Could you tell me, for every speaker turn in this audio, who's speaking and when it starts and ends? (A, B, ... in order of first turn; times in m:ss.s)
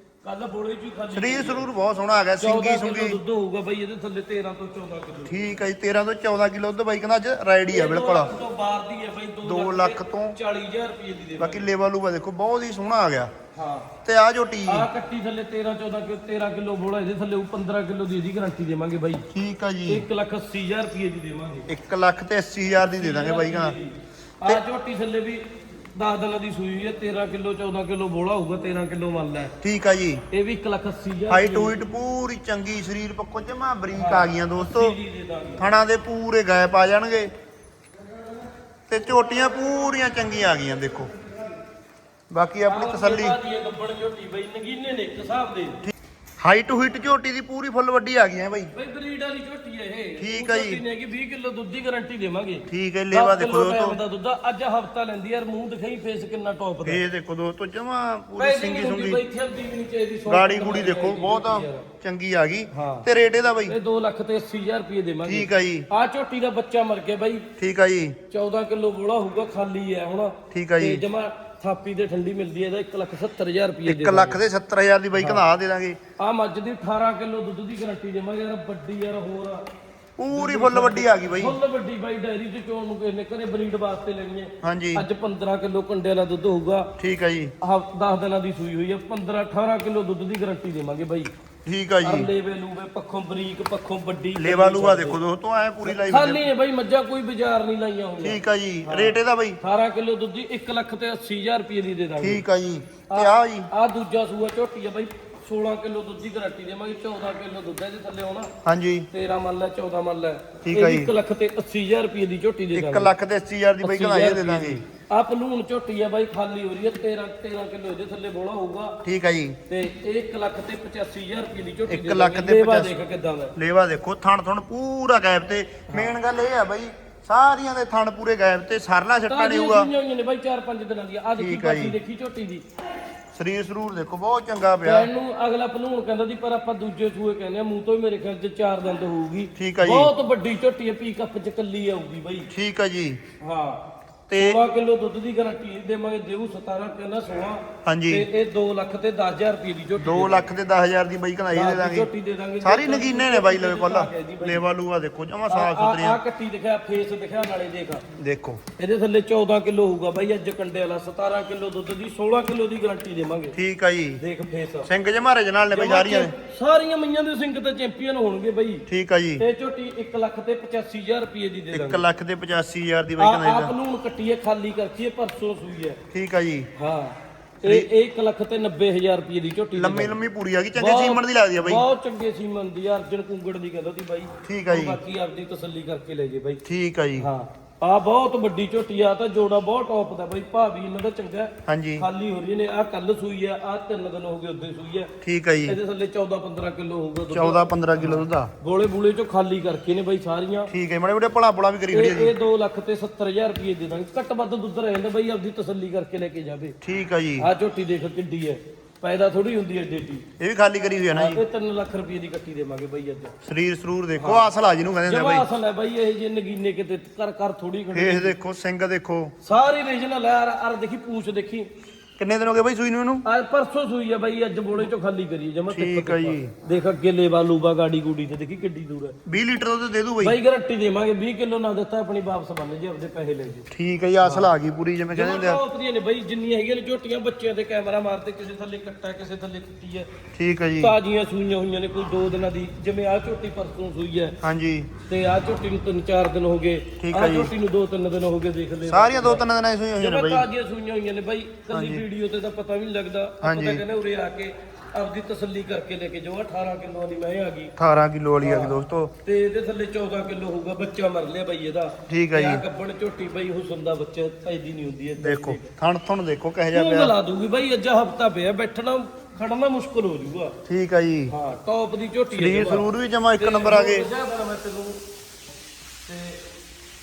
0:00.2-0:01.7 A
0:01.1-0:03.2 B
0:02.4-0:05.5 A
0:05.3-0:08.3 B
0:07.7-0:11.7 A
0:09.4-0:10.4 B
0:11.4-0:13.3 B
0:13.5-0:13.9 A
0:14.0-0:14.9 B
0:14.7-0:19.3 A
0:19.3-0:20.0 B
0:19.9-0:21.7 A
0:21.7-0:23.8 B
0:22.9-0:25.4 A
0:26.0-0:29.6 A
0:29.6-0:30.2 B
0:30.3-0:31.8 A
0:31.3-0:35.0 B
0:33.9-0:35.7 A
0:35.6-0:37.3 B
0:38.9-0:41.1 B
0:42.3-0:43.4 B
0:42.7-0:45.8 A
0:45.8-0:48.7 B
0:48.7-0:57.0 A
0:50.2-0:50.8 B
0:52.7-0:54.0 B
0:56.8-0:59.2 B
0:58.4-1:01.9 A
1:00.3-1:03.8 B
1:02.7-1:03.1 A
1:03.7-1:07.5 A
1:05.2-1:05.9 B
1:07.6-1:08.2 B
1:08.3-1:14.4 A
1:10.5-1:11.0 B
1:13.9-1:16.0 B
1:15.2-1:15.4 A
1:16.2-1:19.6 A
1:20.2-1:21.6 B
1:20.3-1:26.9 A
1:24.6-1:25.1 B
1:27.0-1:27.5 B
1:27.6-1:31.3 A
1:31.6-1:32.3 B
1:32.0-1:35.2 A
1:34.4-1:36.4 B
1:35.8-1:42.4 A
1:38.2-1:39.6 B
1:42.2-1:43.7 B
1:43.1-1:48.5 A
1:48.6-1:49.1 B
1:49.1-1:53.1 A
1:50.6-1:51.1 B
1:52.7-1:54.8 B
1:53.8-1:59.0 A
1:59.0-1:59.6 B
1:59.7-2:03.5 A
2:01.9-2:02.9 B
2:03.6-2:09.9 B
2:05.9-2:06.2 A
2:09.3-2:12.6 A
2:11.4-2:12.0 B
2:13.4-2:15.1 B
2:14.8-2:22.5 A
2:19.6-2:20.1 B
2:22.5-2:23.2 B
2:23.4-2:23.8 A
2:24.3-2:24.6 B
2:24.4-2:30.5 A
2:27.8-2:28.3 B
2:30.0-2:32.1 B
2:31.5-2:34.6 A
2:32.6-2:36.2 B
2:35.5-2:38.0 A
2:38.2-2:38.6 B
2:38.8-2:43.6 A
2:43.5-2:44.2 B
2:44.2-2:44.9 A
2:44.9-2:46.3 B
2:45.7-2:48.8 A
2:48.9-2:49.4 B
2:49.4-2:52.0 A
2:51.7-2:53.8 B
2:53.2-2:56.0 A
2:56.1-2:56.7 B
2:56.8-3:00.2 A
2:59.8-3:01.8 B
3:00.8-3:06.6 A
3:04.4-3:05.0 B
3:06.6-3:07.3 B
3:07.2-3:15.1 A
3:11.7-3:12.1 B
3:15.2-3:15.8 B
3:15.7-3:20.7 A
3:17.3-3:18.5 B
3:20.7-3:22.3 B
3:21.9-3:26.8 A
3:26.8-3:27.5 B
3:27.4-3:30.2 A
3:30.4-3:31.4 B
3:31.1-3:33.3 A
3:33.4-3:35.5 B
3:34.2-3:34.5 A
3:35.1-3:38.4 A
3:37.9-3:39.3 B
3:39.4-3:41.7 A
3:42.2-3:43.2 B
3:43.2-3:49.2 A
3:45.7-3:46.5 B
3:49.3-3:50.4 B
3:50.2-3:53.7 A
3:53.7-3:55.6 B
3:54.2-3:54.5 A
3:55.1-4:00.1 A
4:00.4-4:01.0 B
4:00.8-4:04.4 A
4:04.4-4:04.9 B
4:05.1-4:09.5 A
4:07.0-4:07.5 B
4:08.9-4:10.5 B
4:10.0-4:17.7 A
4:11.7-4:12.0 B
4:13.4-4:13.8 B
4:17.8-4:19.1 B
4:18.4-4:25.7 A
4:22.1-4:22.6 B
4:25.2-4:27.1 B
4:26.7-4:30.6 A
4:30.7-4:31.3 B
4:31.3-4:32.9 A
4:32.3-4:34.1 B
4:33.4-4:35.0 A
4:36.1-4:36.4 A